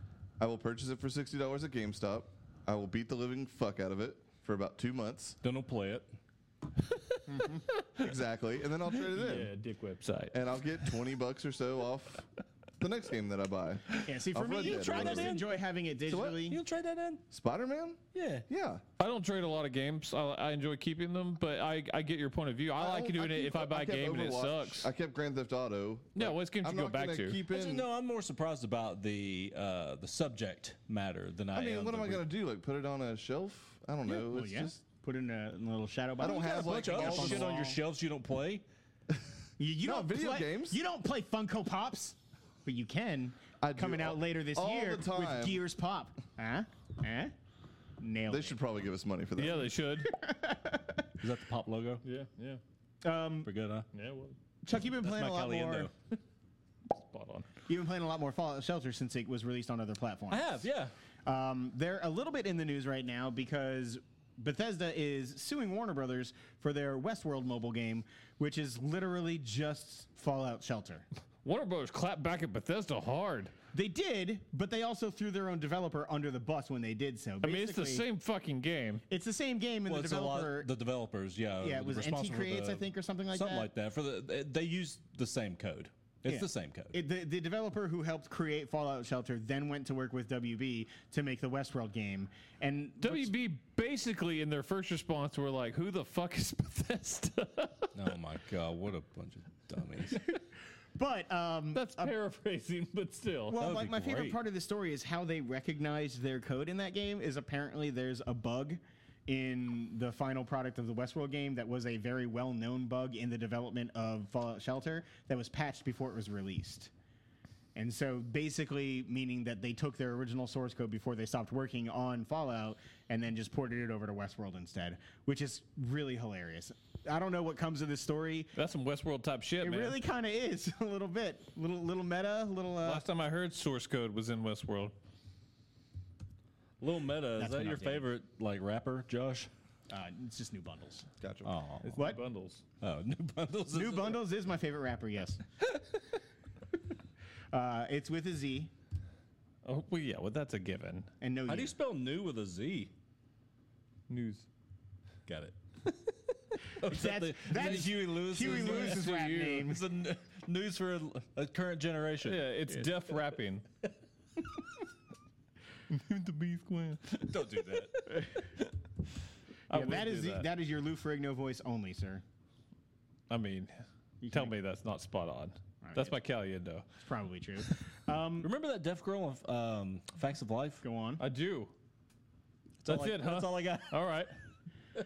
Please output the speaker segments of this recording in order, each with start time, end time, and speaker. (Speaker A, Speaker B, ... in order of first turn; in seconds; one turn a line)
Speaker A: 0.4-5.4
Speaker B: 5.4-6.2
Speaker C: 6.8-8.1
Speaker D: 7.3-7.6
Speaker A: 8.0-9.5
Speaker C: 8.9-10.9
Speaker A: 10.3-12.2
Speaker A: 12.8-15.4
Speaker D: 14.0-16.6
Speaker B: 14.6-15.6
Speaker A: 16.1-16.4
Speaker B: 16.4-17.2
Speaker A: 17.3-18.8
Speaker B: 18.1-18.4
Speaker C: 19.0-24.9
Speaker A: 22.8-27.9
Speaker C: 26.1-27.4
Speaker B: 27.5-32.2
Speaker A: 31.5-34.8
Speaker D: 34.1-37.8
Speaker A: 36.2-37.5
Speaker B: 36.2-38.6
Speaker D: 39.6-47.3
Speaker A: 39.8-40.8
Speaker A: 43.6-45.6
Speaker D: 48.0-48.5
Speaker A: 48.3-49.7
Speaker C: 49.4-50.1
Speaker D: 50.0-51.1
Speaker B: 51.2-52.0
Speaker C: 52.0-52.6
Speaker D: 53.0-53.5
Speaker B: 53.4-53.9
Speaker C: 53.9-54.4
Speaker D: 54.6-55.9
Speaker B: 54.9-55.9
Speaker C: 56.9-57.5
Speaker D: 57.7-60.7
Speaker B: 60.3-60.9
Speaker D: 61.2-71.0
Speaker C: 71.4-73.5
Speaker D: 73.7-78.0
Speaker C: 77.4-79.0
Speaker D: 79.1-80.7
Speaker B: 79.9-87.0
Speaker D: 81.6-83.7
Speaker D: 86.2-93.3
Speaker C: 93.0-97.9
Speaker B: 97.9-100.3
Speaker D: 101.0-102.1
Speaker C: 101.7-103.6
Speaker D: 103.5-116.9
Speaker B: 103.6-104.4
Speaker D: 117.7-128.5
Speaker C: 128.5-130.0
Speaker D: 129.6-133.0
Speaker C: 132.8-134.9
Speaker B: 136.8-139.5
Speaker D: 137.4-138.1
Speaker D: 139.9-141.1
Speaker C: 141.2-142.6
Speaker B: 141.4-142.0
Speaker D: 141.9-142.2
Speaker B: 142.8-144.2
Speaker D: 143.7-145.4
Speaker D: 147.5-148.7
Speaker C: 149.6-151.1
Speaker D: 151.2-151.7
Speaker B: 151.5-152.9
Speaker C: 154.1-154.4
Speaker B: 155.3-155.6
Speaker B: 156.7-162.8
Speaker D: 156.8-159.8
Speaker C: 158.4-159.7
Speaker C: 162.2-163.6
Speaker C: 165.9-168.4
Speaker B: 167.2-168.0
Speaker C: 169.7-170.4
Speaker D: 169.7-172.2
Speaker C: 173.3-173.7
Speaker D: 174.2-174.5
Speaker C: 174.3-176.8
Speaker D: 175.8-176.1
Speaker D: 177.0-178.5
Speaker B: 178.4-180.8
Speaker D: 180.8-181.2
Speaker C: 181.2-181.7
Speaker B: 182.8-183.8
Speaker C: 182.8-184.3